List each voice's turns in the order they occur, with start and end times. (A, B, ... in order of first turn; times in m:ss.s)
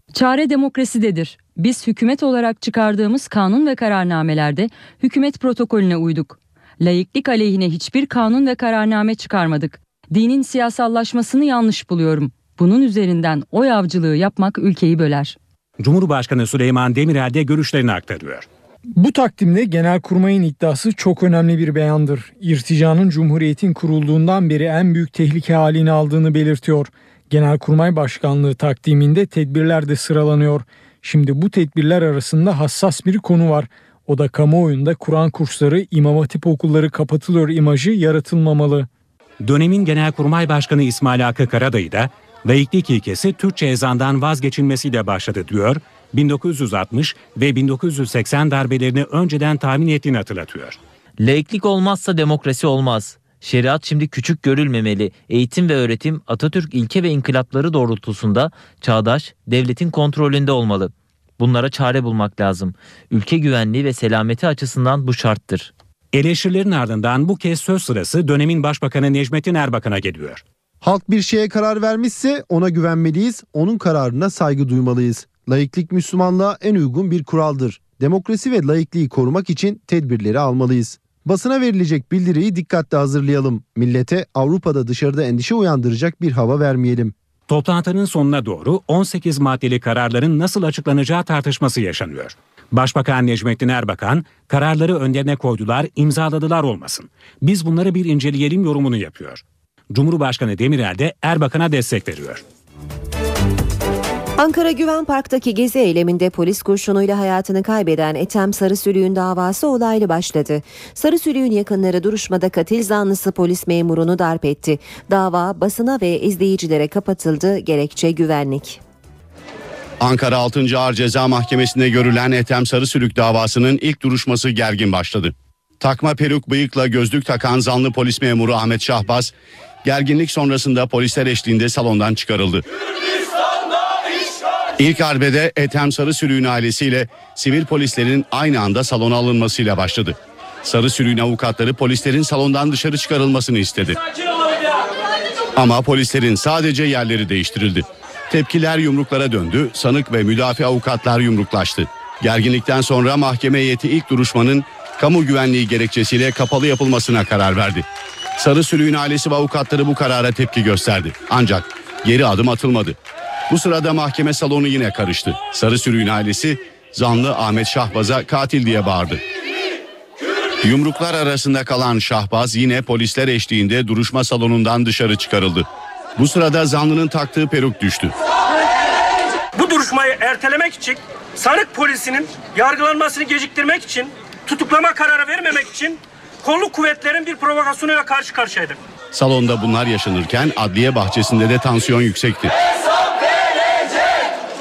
0:00.1-0:15.4 A
0:15.8-0:18.4 B
0:19.0-0:38.9 C
0:39.4-0:50.8 B
0:51.2-1:05.7 D
1:06.1-1:10.4 B
1:10.8-1:27.1 E
1:27.5-1:42.4 B
1:44.4-1:58.8 F
2:00.0-2:09.3 G
2:09.8-2:12.6 G
2:14.8-2:24.0 G
2:25.5-2:37.8 G
2:38.4-2:43.0 G
2:43.5-2:49.2 G
2:50.6-2:55.6 G
2:56.2-2:58.1 G
2:59.6-3:08.8 H
3:09.1-3:12.5 G